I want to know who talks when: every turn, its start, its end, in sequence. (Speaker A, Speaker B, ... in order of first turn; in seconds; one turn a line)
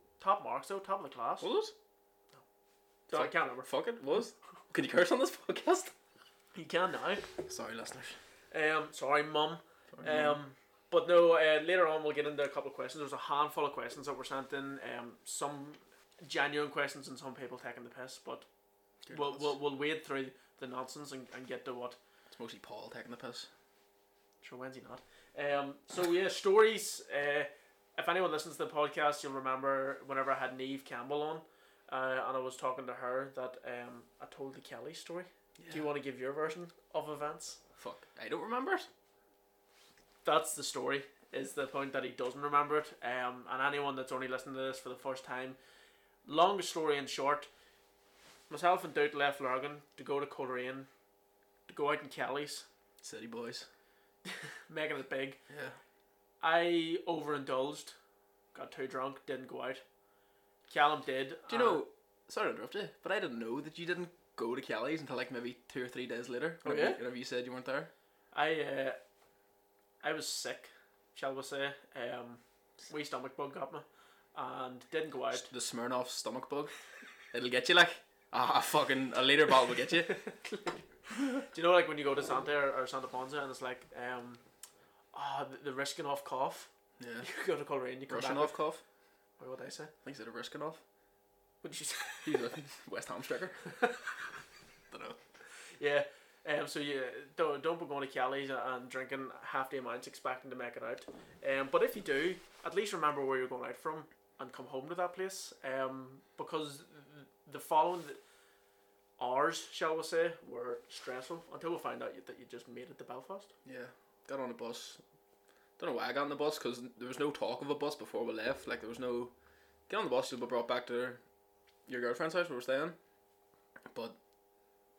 Speaker A: 0.2-1.5
Speaker B: 1.4-1.7
Speaker B: 3.1-5.9
Speaker A: 3.1-3.7
Speaker A: 6.5-7.3
Speaker B: 7.4-8.2
Speaker A: 8.5-18.4
Speaker B: 9.9-10.4
Speaker B: 19.0-19.5
Speaker A: 19.1-22.0
Speaker B: 22.3-23.5
Speaker A: 24.4-37.6
Speaker B: 35.6-35.9
Speaker B: 37.8-38.9
Speaker A: 40.2-45.6
Speaker A: 46.2-47.5
Speaker A: 48.5-50.9
Speaker A: 51.7-52.7
Speaker B: 53.0-53.7
Speaker A: 54.2-55.4
Speaker B: 55.5-55.8
Speaker A: 56.4-58.0
Speaker A: 58.5-59.8
Speaker A: 60.7-61.8
Speaker B: 61.5-67.9
Speaker A: 66.6-67.0
Speaker A: 68.3-69.0
Speaker A: 70.0-75.5
Speaker B: 75.3-76.7
Speaker B: 77.3-80.2
Speaker A: 80.1-84.4
Speaker A: 85.1-86.7
Speaker B: 87.0-87.3
Speaker A: 87.2-88.6
Speaker B: 88.1-88.8
Speaker A: 89.4-89.9
Speaker B: 90.0-90.8
Speaker A: 91.6-92.5
Speaker B: 92.2-93.6
Speaker A: 93.7-94.2
Speaker B: 94.9-95.2
Speaker A: 95.8-108.2
Speaker A: 109.2-113.5
Speaker B: 113.6-115.0
Speaker B: 115.8-119.3
Speaker B: 119.9-121.2
Speaker B: 121.9-123.0